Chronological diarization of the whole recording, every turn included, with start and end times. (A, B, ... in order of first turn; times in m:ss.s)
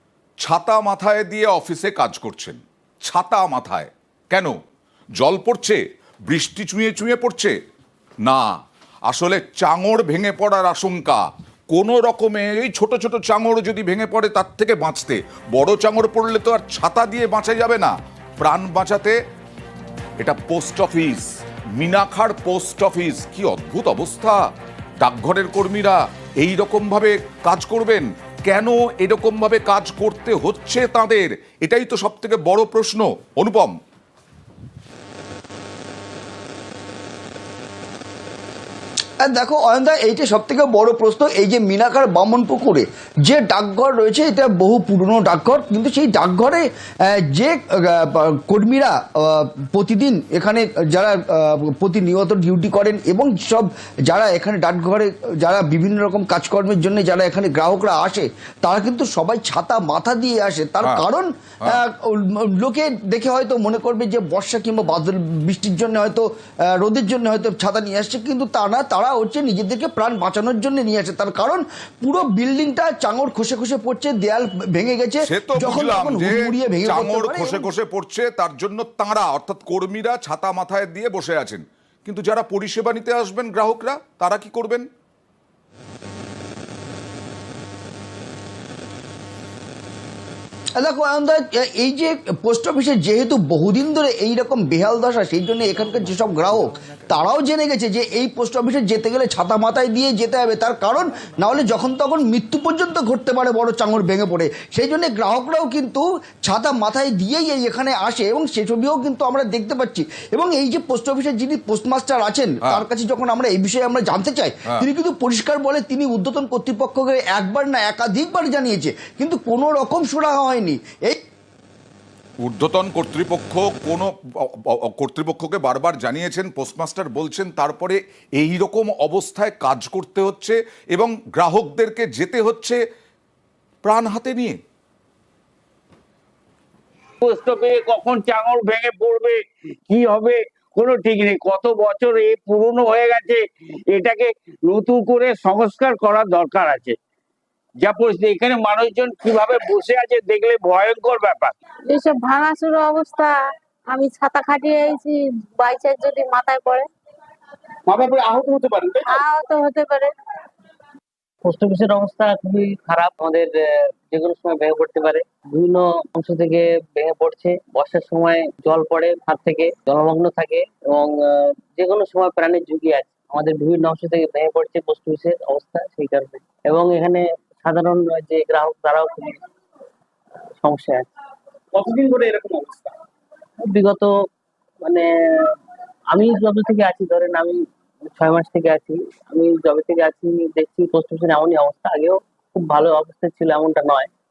0:00.4-0:04.6 A
0:05.2-0:07.6 A
0:09.1-0:19.2 A
0:20.2-0:24.4 A
0:25.0-0:33.7 A
0:39.2-1:17.7 B
1:15.2-1:24.9 A
1:30.8-2:01.2 B
2:02.4-2:12.8 A
2:13.8-2:14.6 A
2:17.2-2:27.0 C
2:27.8-2:31.6 C
2:31.9-2:33.4 D
2:33.9-2:36.9 D
2:37.9-2:39.2 C
2:39.0-2:40.1 D
2:41.4-2:59.4 E
3:00.6-3:01.1 E
3:01.7-3:02.9 C
3:03.6-3:04.1 E
3:04.8-3:05.6 E
3:06.1-3:14.1 E